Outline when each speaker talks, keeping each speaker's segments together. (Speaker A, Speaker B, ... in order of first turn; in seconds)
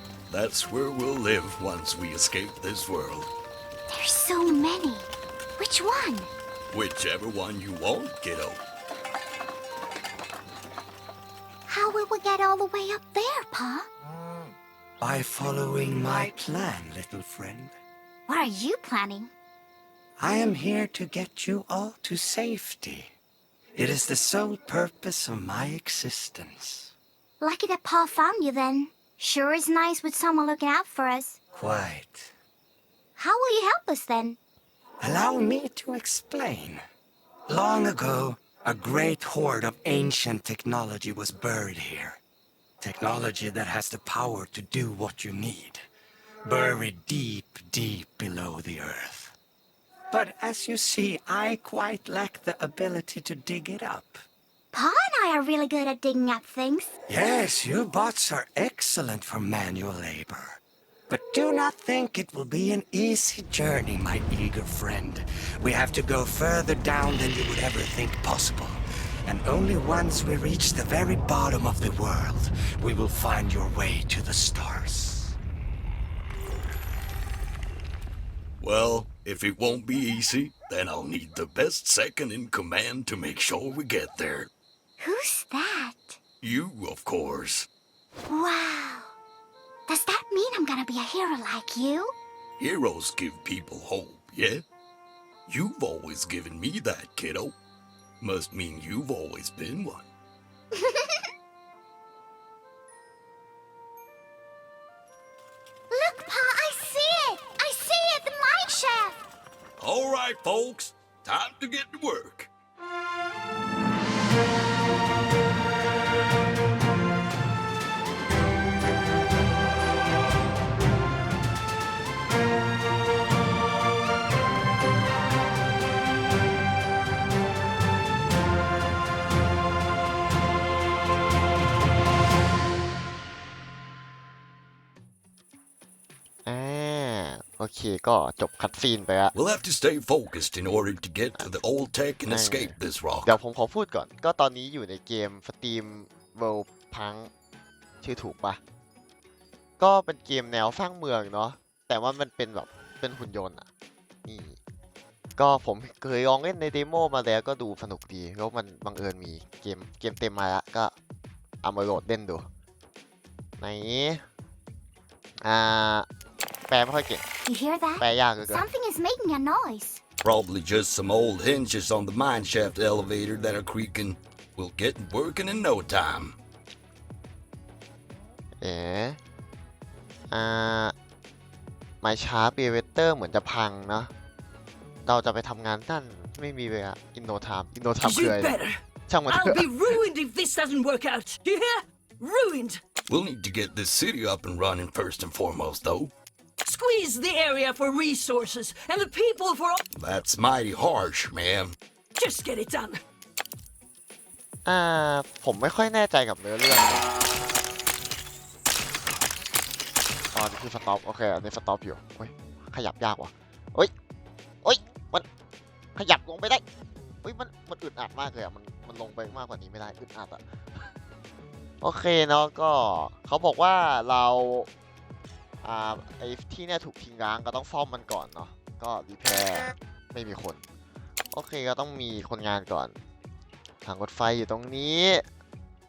Speaker A: 0.3-3.3, 6.7-8.6, 78.6-84.5, 86.4-87.7, 92.6-94.6, 95.5-97.5, 98.2-100.1, 109.8-112.5, 139.3-143.4, 170.2-176.4, 193.1-196.1, 199.9-201.8
Speaker B: 3.9-6.3, 11.7-13.9, 18.3-19.3, 27.4-31.4, 33.1-34.4, 54.7-57.0, 85.0-86.2, 88.3-89.1, 89.9-92.1, 100.7-101.3, 105.9-109.2, 167.4-170.0
Speaker C: 15.0-17.8, 20.2-23.1, 23.7-26.9, 31.5-32.3, 35.0-36.8, 37.5-42.2, 42.8-45.8, 46.4-49.4, 50.1-54.2, 57.1-75.4
Speaker D: 136.4-139.3, 142.3-147.3, 148.0-148.6, 149.8-153.7, 154.2-154.6, 155.4-160.9, 161.6-162.4, 163.6-164.2, 165.4-166.1, 166.7-167.2, 168.0-168.7, 178.6-179.2, 180.3-180.9, 182.0-184.1, 185.1-188.5, 189.1-189.7, 204.7-207.1, 210.3-213.9, 214.6-215.2, 215.9-216.6, 217.2-220.9, 221.8-224.7, 225.6-230.6, 231.3-232.9, 233.8-235.2
Speaker E: 188.0-192.8, 196.6-199.8, 202.2-203.0